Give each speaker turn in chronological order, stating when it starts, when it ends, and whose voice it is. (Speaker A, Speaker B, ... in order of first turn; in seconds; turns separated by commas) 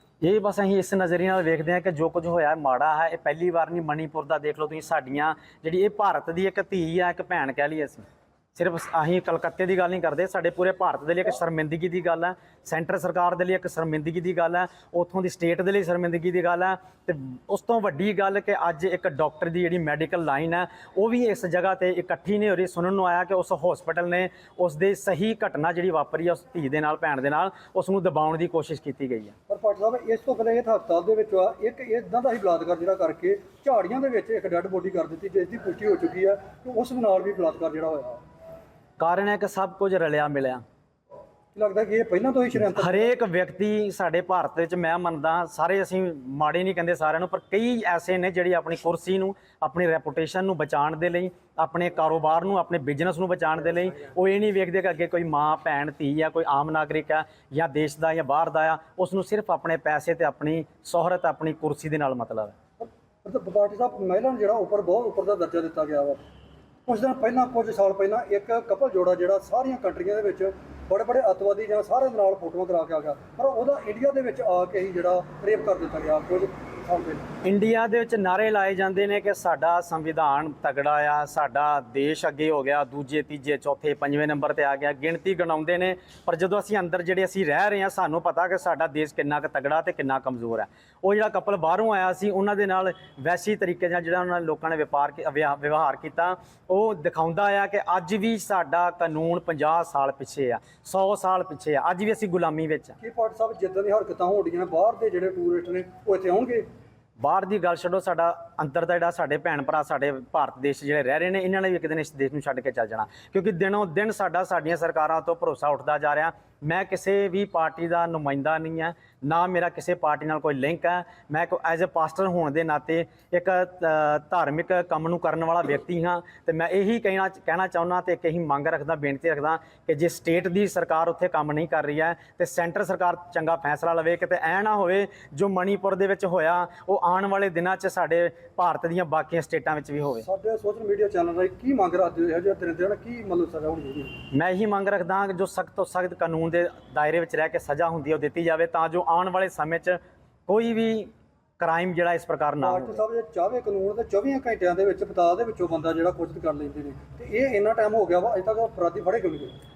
Speaker A: 0.2-29.3, Speaker B: 29.5-38.2, Speaker A: 39.0-40.6, Speaker B: 41.5-43.1, Speaker A: 42.7-62.5, Speaker B: 62.8-66.2, Speaker B: 66.9-77.2, Speaker A: 77.4-103.0, Speaker B: 103.0-106.7, Speaker A: 107.2-140.2, Speaker B: 140.2-144.2, Speaker A: 144.3-153.0, Speaker B: 152.6-159.5